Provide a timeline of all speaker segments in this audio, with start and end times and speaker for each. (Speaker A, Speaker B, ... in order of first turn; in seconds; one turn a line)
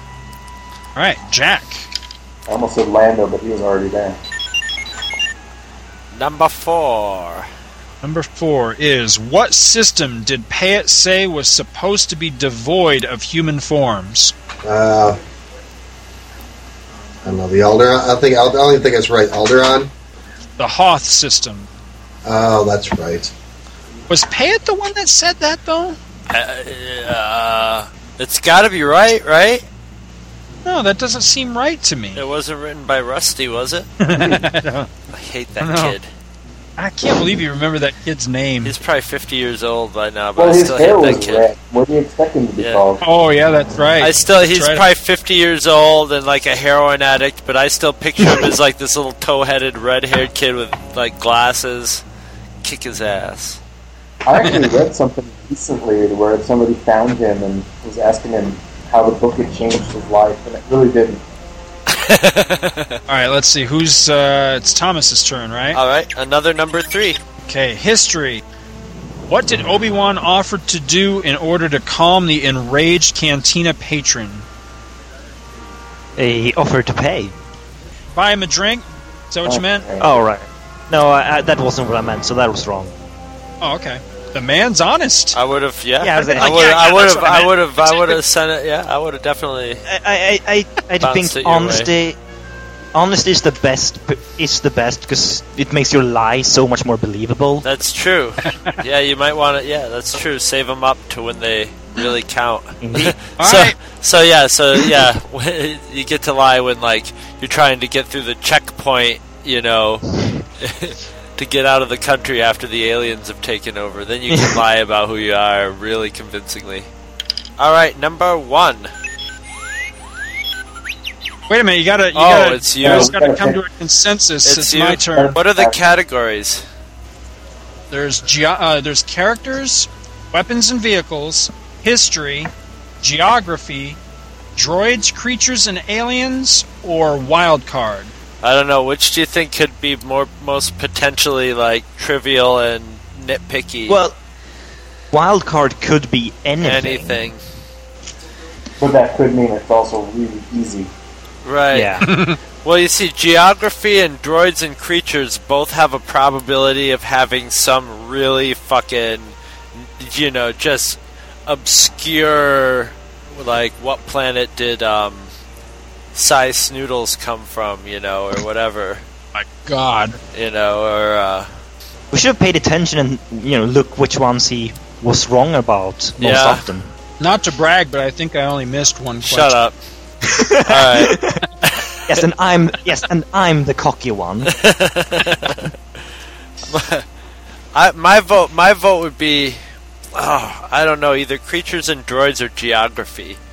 Speaker A: 0.9-1.9
Speaker B: 2.5-4.2
Speaker C: 6.1-7.5
Speaker A: 8.0-14.3
Speaker D: 14.6-15.2
Speaker D: 17.2-19.9
Speaker A: 20.6-21.7
Speaker D: 22.2-23.3
Speaker A: 24.1-26.0
Speaker C: 26.3-29.6
Speaker A: 30.6-32.2
Speaker C: 32.1-33.9
Speaker A: 34.0-34.9
Speaker C: 35.1-36.0
Speaker A: 35.6-36.0
Speaker A: 36.8-38.7
Speaker C: 38.6-41.5
Speaker B: 40.4-43.0
Speaker A: 43.0-44.8
Speaker C: 44.0-52.0
Speaker C: 52.6-53.6
Speaker B: 54.2-61.2
Speaker A: 54.4-54.7
Speaker C: 61.9-63.0
Speaker A: 63.1-65.8
Speaker C: 65.7-67.2
Speaker A: 67.5-68.4
Speaker A: 69.3-74.5
Speaker E: 76.2-77.3
Speaker A: 78.1-79.8
Speaker B: 79.4-80.2
Speaker E: 80.0-82.9
Speaker A: 83.6-85.4
Speaker C: 85.3-89.8
Speaker E: 86.0-88.1
Speaker A: 86.4-87.4
Speaker E: 89.9-92.2
Speaker C: 91.0-91.9
Speaker E: 92.9-97.7
Speaker C: 97.6-110.0
Speaker A: 98.4-98.8
Speaker E: 102.8-103.2
Speaker A: 103.4-103.7
Speaker E: 104.7-105.0
Speaker C: 110.6-116.9
Speaker E: 114.3-114.6
Speaker C: 117.6-118.9
Speaker A: 121.5-125.4
Speaker C: 122.1-123.1
Speaker B: 122.8-123.6
Speaker C: 124.4-126.6
Speaker B: 125.1-125.8
Speaker A: 127.9-132.5
Speaker A: 133.0-134.0
Speaker A: 134.6-138.1
Speaker C: 138.4-144.0
Speaker E: 143.9-144.2
Speaker E: 145.1-147.2
Speaker C: 146.6-147.4
Speaker B: 148.8-150.9
Speaker C: 151.4-152.1
Speaker E: 151.7-152.1
Speaker A: 152.0-152.4
Speaker C: 152.6-165.3
Speaker C: 166.1-169.0
Speaker A: 169.3-170.2
Speaker C: 170.3-171.5
Speaker E: 172.1-176.9
Speaker C: 176.2-176.7
Speaker A: 177.2-179.6
Speaker C: 179.2-179.7
Speaker E: 180.2-181.4
Speaker C: 180.7-181.2
Speaker E: 182.1-184.5
Speaker C: 184.5-185.7
Speaker C: 186.7-187.0
Speaker C: 187.7-189.6
Speaker C: 190.1-193.4